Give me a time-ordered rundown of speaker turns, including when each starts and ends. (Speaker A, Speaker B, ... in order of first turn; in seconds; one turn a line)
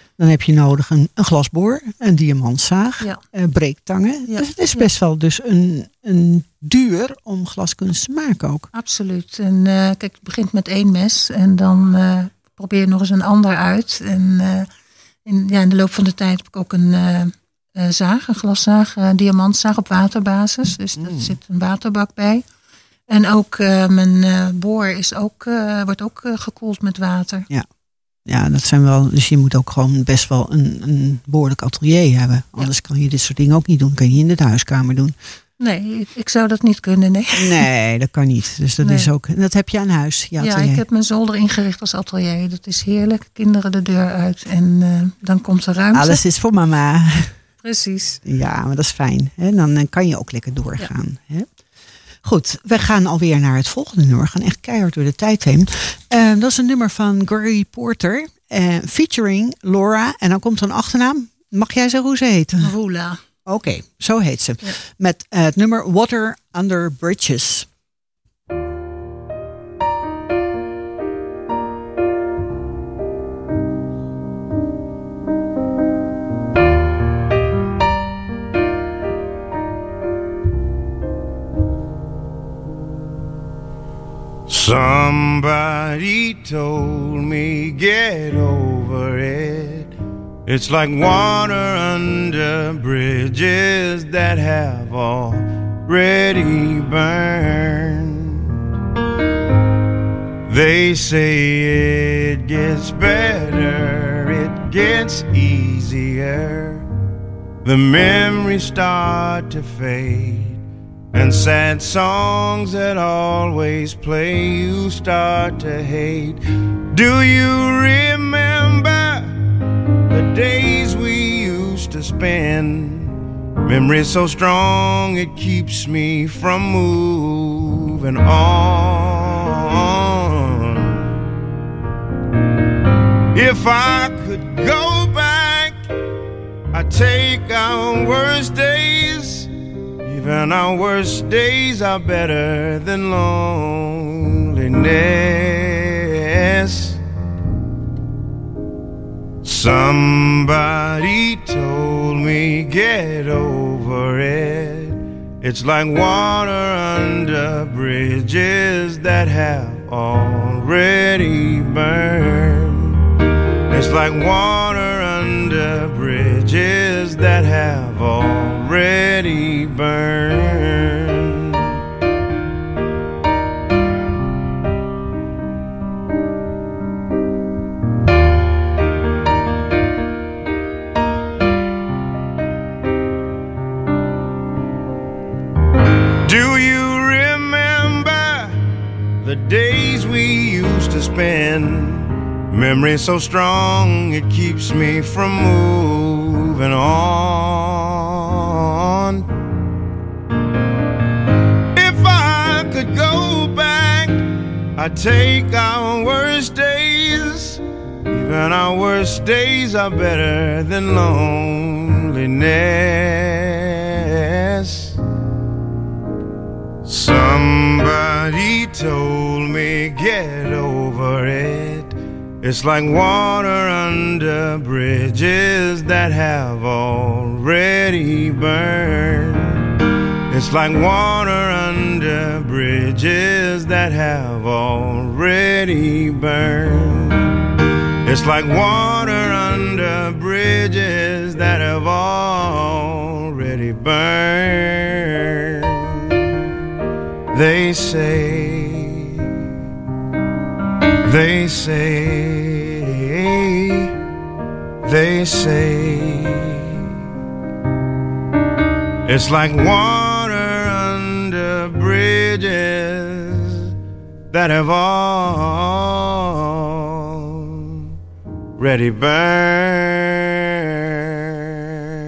Speaker A: 0.2-8.7
Speaker B: 4.3-4.9
Speaker B: 8.7-14.7
Speaker B: 15.2-22.4
Speaker A: 21.0-21.3
Speaker B: 23.1-27.5
Speaker A: 28.2-35.1
Speaker B: 35.6-37.6
Speaker A: 37.4-40.8
Speaker B: 38.8-39.1
Speaker B: 40.4-46.2
Speaker A: 45.9-47.4
Speaker B: 47.6-48.2
Speaker A: 48.2-51.5
Speaker A: 52.2-62.7
Speaker B: 62.6-63.2
Speaker A: 63.5-67.7
Speaker C: 84.5-89.9
Speaker C: 90.5-98.5
Speaker C: 100.5-106.8
Speaker C: 107.6-110.6
Speaker C: 111.1-119.3
Speaker C: 120.1-131.1
Speaker C: 133.3-135.8
Speaker C: 136.7-139.5
Speaker C: 140.0-147.0
Speaker C: 149.4-163.0
Speaker C: 163.7-171.6
Speaker C: 186.2-188.6
Speaker C: 189.2-199.2
Speaker C: 201.7-214.9
Speaker C: 216.8-229.6
Speaker C: 230.3-237.3
Speaker C: 238.0-245.8
Speaker C: 247.3-249.1
Speaker C: 251.0-253.9
Speaker C: 254.8-256.7
Speaker C: 259.1-263.6
Speaker C: 264.3-267.8
Speaker C: 268.6-271.2